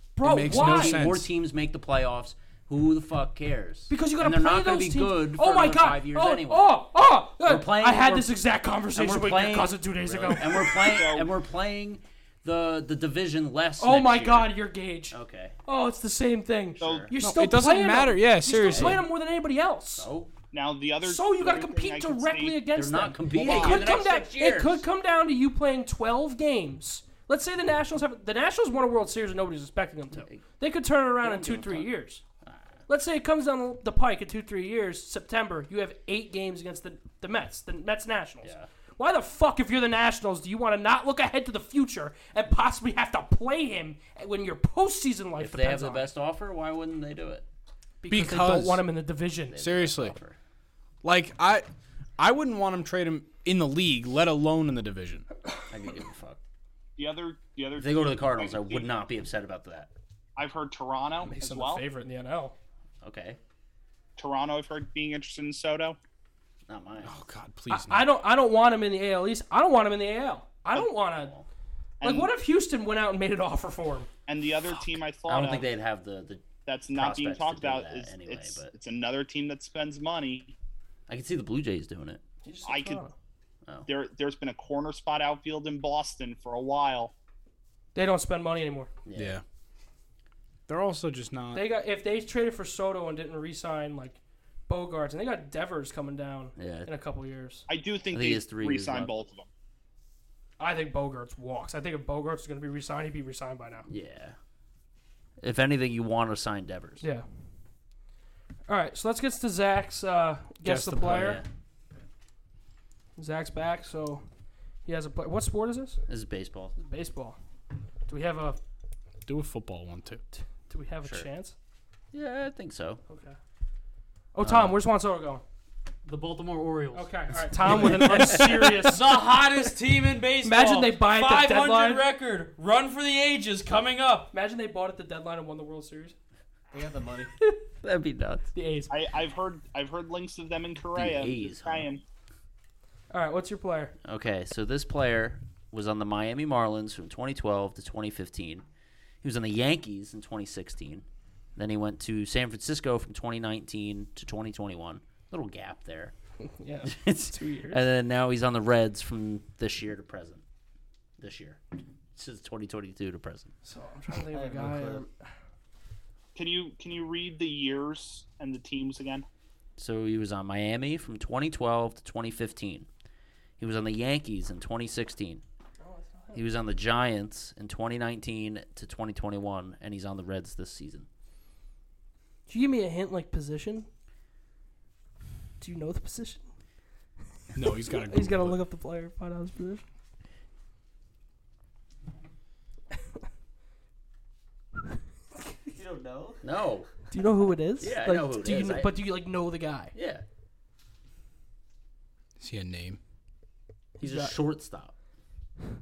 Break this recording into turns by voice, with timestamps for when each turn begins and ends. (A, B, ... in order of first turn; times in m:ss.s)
0:00.2-0:01.1 A
0:00.2-0:01.3 B
0:00.3-0:08.4 C
0:03.9-0:11.0 A
0:08.9-0:14.6 C
0:10.7-0:11.3 D
0:13.8-0:20.1 A
0:15.1-0:15.6 C
0:16.8-0:17.2 C
0:16.8-0:17.1 D
0:17.2-0:19.1 B
0:18.6-0:19.0 C
0:20.0-0:20.3 C
0:20.5-0:22.7 D
0:21.0-0:32.2 A
0:22.7-0:24.8 C
0:23.3-0:23.9 D
0:31.2-0:31.9 C
0:32.4-0:32.8 C
0:32.9-0:46.1 A
0:38.4-0:38.7 C
0:45.4-0:47.4 C
0:48.0-0:49.6 A
0:48.1-0:48.8 B
0:49.5-0:50.4 C
0:49.6-0:50.2 B
0:51.0-0:51.6 B
0:52.2-0:55.3 B
0:55.7-0:56.4 C
0:57.0-0:58.9 D
0:57.8-0:59.9 C
1:00.4-1:01.8 D
1:01.3-1:02.6 A
1:03.0-1:03.4 C
1:04.2-1:06.0 D
1:06.7-1:07.3 C
1:07.0-1:08.1 B
1:07.7-1:11.3 A
1:11.0-1:11.5 C
1:12.0-1:12.3 D
1:12.0-1:14.1 A
1:14.3-1:15.7 D
1:15.3-1:18.7 C
1:16.7-1:20.6 D
1:21.1-1:22.2 C
1:22.4-1:23.1 A
1:22.6-1:23.0 D
1:23.9-1:27.1 D
1:28.0-1:28.9 A
1:29.1-1:29.4 C
1:29.2-1:29.4 B
1:30.7-1:31.6 B
1:31.5-1:37.7 A
1:36.6-1:36.9 C
1:37.7-1:39.5 D
1:38.1-1:39.3 C
1:40.6-1:43.9 A
1:43.9-1:44.4 C
1:45.4-1:47.0 C
1:48.7-1:51.4 A
1:50.6-1:51.4 B
1:51.1-1:51.4 C
1:53.2-1:54.2 A
1:54.9-1:56.0 A
1:56.1-1:56.8 C
1:56.8-1:57.4 A
1:58.1-1:58.6 A
1:59.3-2:00.2 B
2:00.3-2:01.6 A
2:02.1-2:03.0 C
2:03.1-2:03.4 A
2:04.4-2:05.4 A
2:04.4-2:04.8 C
2:06.0-2:14.3 E
2:06.9-2:09.1 A
2:07.8-2:08.7 C
2:10.4-2:12.0 A
2:14.3-2:16.2 A
2:16.7-2:17.3 F
2:17.8-2:18.5 C
2:18.6-2:19.0 A
2:18.9-2:22.0 D
2:20.9-2:21.9 C
2:23.1-2:23.9 A
2:24.0-2:28.6 C
2:29.2-2:31.0 C
2:31.6-2:36.1 C
2:36.4-2:37.8 A
2:36.8-2:40.4 C
2:41.2-2:41.6 C
2:42.2-2:43.5 C
2:43.6-2:45.2 A
2:44.3-2:45.0 F
2:46.4-2:49.3 D
2:49.8-2:52.9 C
2:53.6-2:55.4 C
2:55.8-2:56.4 A
2:56.3-3:01.1 C
3:02.5-3:03.9 A
3:05.6-3:06.5 A
3:07.5-3:08.6 B
3:07.9-3:09.8 A
3:15.7-3:16.4 F
3:16.4-3:16.9 C
3:17.1-3:19.9 A
3:17.8-3:19.0 C
3:19.9-3:20.2 C
3:22.4-3:23.0 B
3:24.0-3:24.4 A
3:24.0-3:24.9 C